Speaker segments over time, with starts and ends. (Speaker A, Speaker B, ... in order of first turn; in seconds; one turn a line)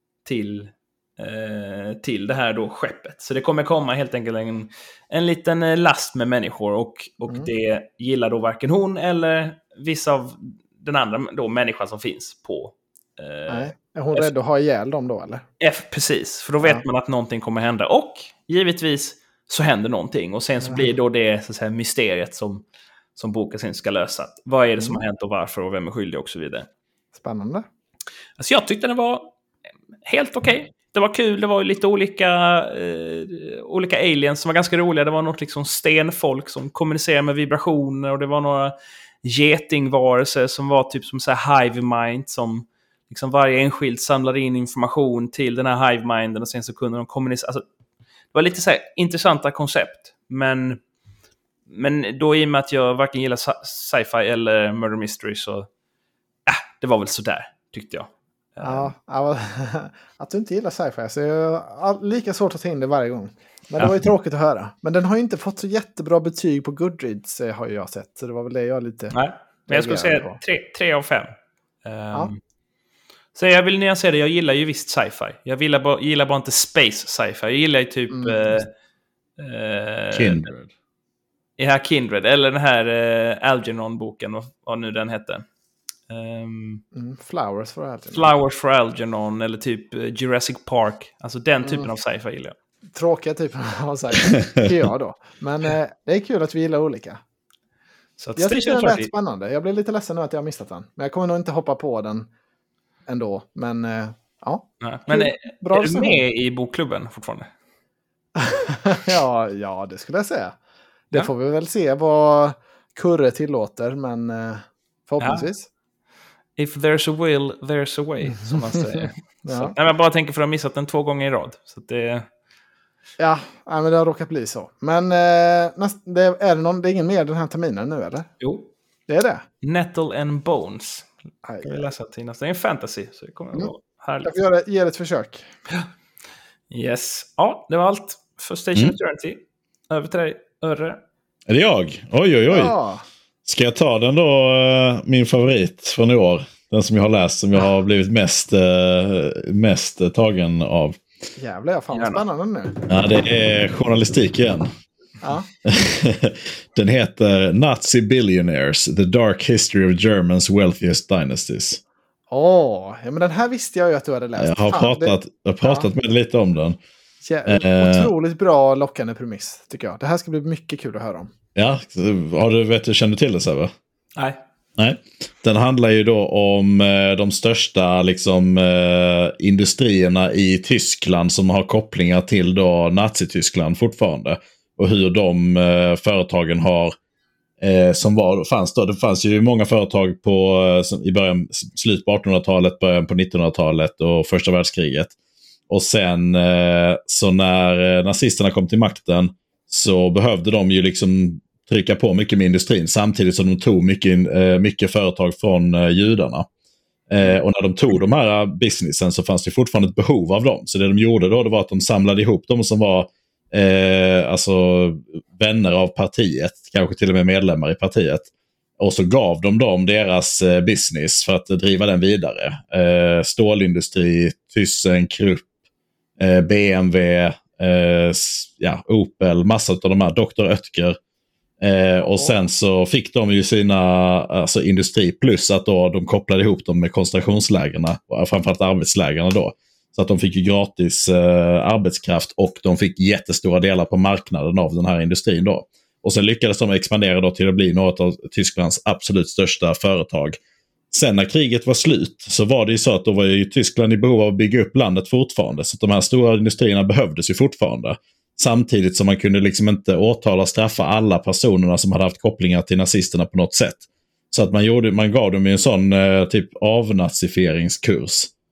Speaker A: 0.2-14.3
Speaker B: 13.5-15.4
Speaker A: 15.6-22.6
Speaker B: 20.6-20.9
Speaker A: 23.1-26.7
Speaker B: 27.1-27.6
Speaker A: 28.4-29.3
Speaker A: 30.0-47.6
Speaker A: 48.3-50.8
Speaker A: 51.7-55.7
Speaker A: 56.5-58.9
Speaker B: 58.6-70.4
Speaker A: 69.1-71.3
Speaker A: 71.8-72.4
Speaker A: 73.3-78.7
Speaker B: 78.1-78.6
Speaker A: 79.4-80.5
Speaker C: 80.1-80.7
Speaker A: 81.6-85.4
Speaker A: 86.1-86.8
Speaker B: 86.9-88.3
Speaker A: 88.1-92.5
Speaker B: 91.6-91.9
Speaker B: 92.9-97.2
Speaker A: 98.2-99.1
Speaker B: 98.3-102.3
Speaker B: 103.1-106.2
Speaker A: 104.8-107.5
Speaker B: 108.3-110.5
Speaker B: 111.1-115.7
Speaker A: 115.2-115.5
Speaker A: 116.6-122.3
Speaker B: 118.3-119.7
Speaker B: 123.2-128.3
Speaker A: 128.4-128.7
Speaker B: 129.1-129.4
Speaker A: 129.6-131.1
Speaker B: 131.4-131.9
Speaker A: 131.6-134.3
Speaker B: 134.2-135.4
Speaker A: 136.7-141.0
Speaker C: 141.5-142.7
Speaker B: 142.5-143.0
Speaker C: 143.4-151.0
Speaker B: 151.4-152.8
Speaker A: 151.9-152.2
Speaker C: 152.9-154.7
Speaker B: 155.2-155.5
Speaker C: 155.6-161.8
Speaker B: 162.3-165.9
Speaker C: 164.4-166.8
Speaker B: 167.2-171.3
Speaker C: 167.4-168.1
Speaker C: 171.6-173.7
Speaker C: 174.8-186.9
Speaker C: 187.6-195.1
Speaker C: 195.7-206.5
Speaker C: 207.1-218.3
Speaker C: 218.8-225.5
Speaker C: 226.2-231.0
Speaker C: 231.6-250.4
Speaker C: 250.9-268.3